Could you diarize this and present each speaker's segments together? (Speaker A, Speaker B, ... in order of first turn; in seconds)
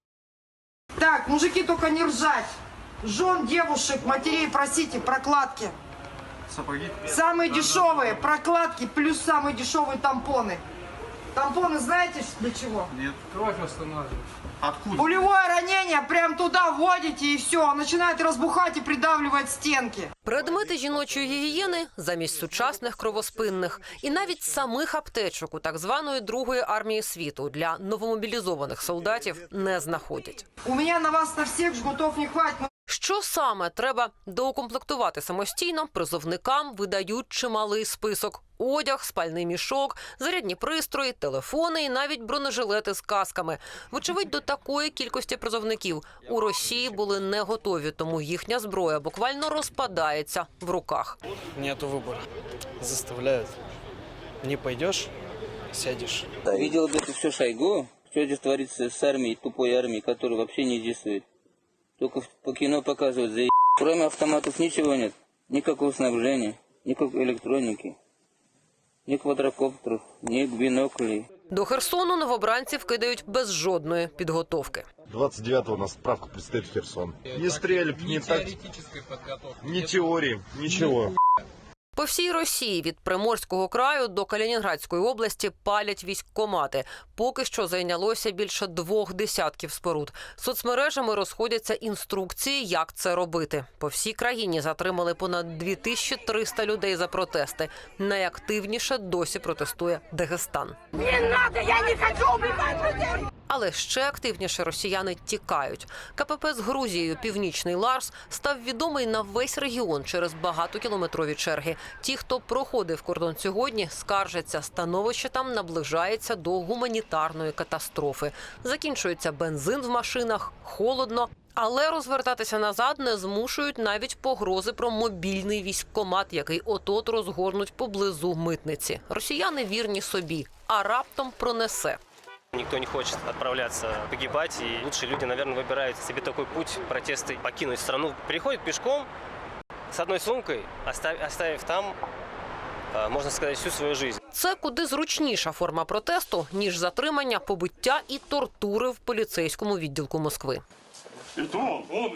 Speaker A: 1.0-5.8, 7.0-10.6, 11.3-12.9, 14.9-20.1, 30.6-32.7
Speaker B: 20.2-30.5, 32.9-51.2, 71.5-74.9, 82.0-132.0, 144.3-150.6
Speaker C: 51.6-52.2, 52.8-53.5, 54.4-55.1, 55.7-56.3
Speaker D: 56.5-61.2, 62.0-68.0, 69.1-71.3
Speaker E: 75.1-78.6, 79.6-81.1
Speaker F: 132.5-139.1, 139.9-141.9, 142.9-144.2